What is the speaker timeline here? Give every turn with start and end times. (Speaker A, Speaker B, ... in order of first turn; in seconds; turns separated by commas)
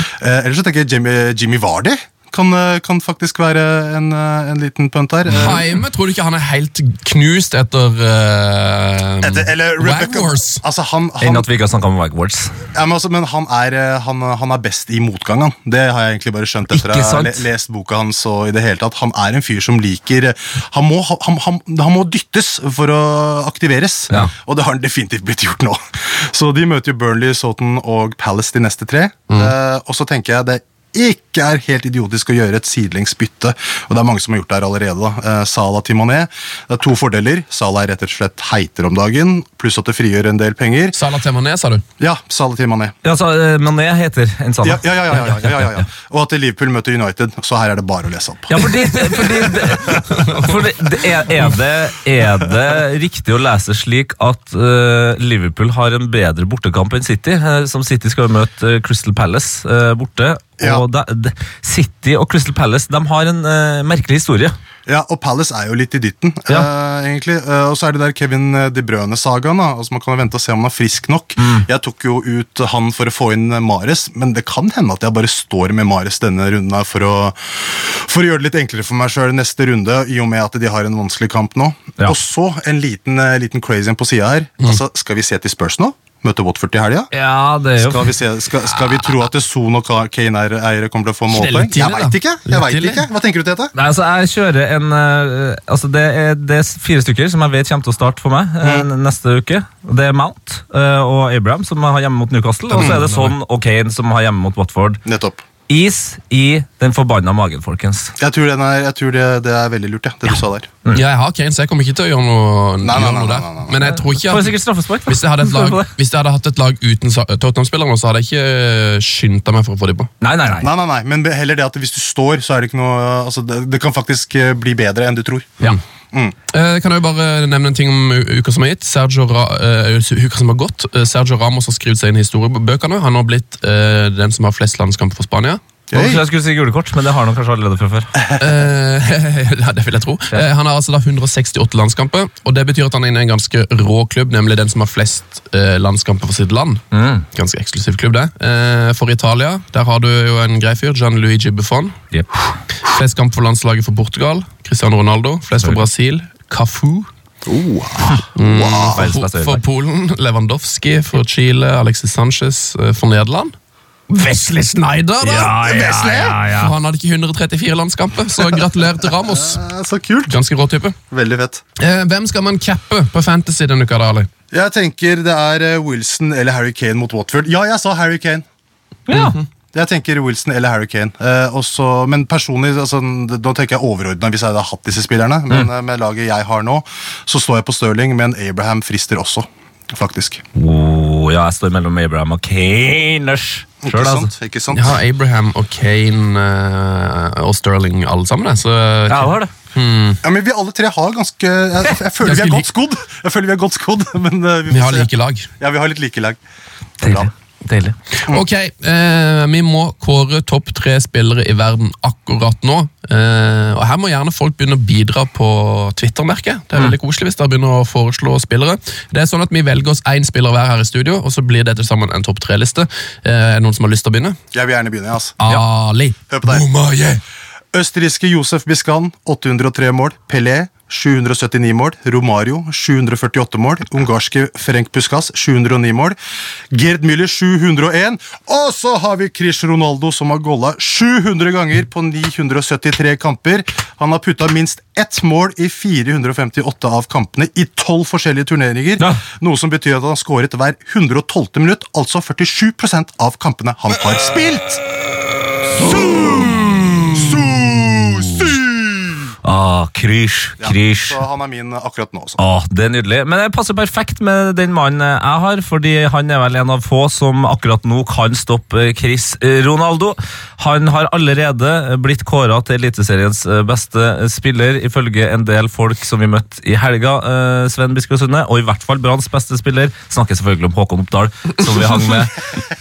Speaker A: 0.2-5.6, Speaker B: 5.3-10.6, Speaker A: 9.2-11.5, Speaker C: 11.2-12.5, Speaker A: 12.7-41.0, Speaker C: 16.7-17.4, Speaker B: 40.9-41.8, Speaker A: 42.0-42.9, Speaker C: 43.0-45.9, Speaker A: 44.6-49.0, Speaker C: 48.5-64.5, Speaker B: 50.0-50.5, Speaker A: 60.6-60.8, Speaker A: 64.8-87.1, Speaker C: 71.4-71.7, Speaker C: 87.1-88.1, Speaker A: 87.8-93.7, Speaker B: 91.3-93.0, Speaker C: 93.7-105.0, Speaker A: 98.6-98.8, Speaker B: 102.7-103.3, Speaker A: 105.0-105.4, Speaker C: 105.7-108.1, Speaker A: 108.2-110.7, Speaker B: 110.9-120.1, Speaker A: 112.8-113.9, Speaker C: 114.2-115.9, Speaker C: 120.2-120.7, Speaker A: 120.6-126.3, Speaker B: 126.5-135.6, Speaker A: 135.9-136.2, Speaker C: 135.9-138.1, Speaker B: 138.4-151.9, Speaker C: 146.9-147.2, Speaker B: 152.8-157.1, Speaker A: 157.4-159.0, Speaker B: 158.3-163.5, Speaker C: 158.9-159.6, Speaker B: 164.1-169.6, Speaker C: 165.2-166.7, Speaker A: 165.7-166.3, Speaker A: 168.4-168.7, Speaker A: 169.3-170.3, Speaker B: 170.3-170.9, Speaker A: 171.1-171.6, Speaker B: 171.8-174.3, Speaker A: 174.5-178.4, Speaker C: 179.1-179.4, Speaker B: 179.1-179.4, Speaker A: 179.7-190.4, Speaker C: 190.5-194.3, Speaker A: 193.8-194.9, Speaker B: 194.7-200.2, Speaker C: 199.1-199.5, Speaker A: 200.2-206.4, Speaker B: 202.2-202.7, Speaker B: 204.7-205.5, Speaker C: 207.0-207.9, Speaker A: 207.0-207.3, Speaker B: 208.3-224.3, Speaker A: 224.5-225.4, Speaker B: 225.4-227.2, Speaker A: 226.3-226.7, Speaker A: 227.7-236.2, Speaker A: 236.7-254.8, Speaker C: 255.8-258.5, Speaker A: 255.9-256.4, Speaker A: 257.2-258.5, Speaker C: 259.4-261.2, Speaker A: 260.6-262.4, Speaker C: 262.4-282.3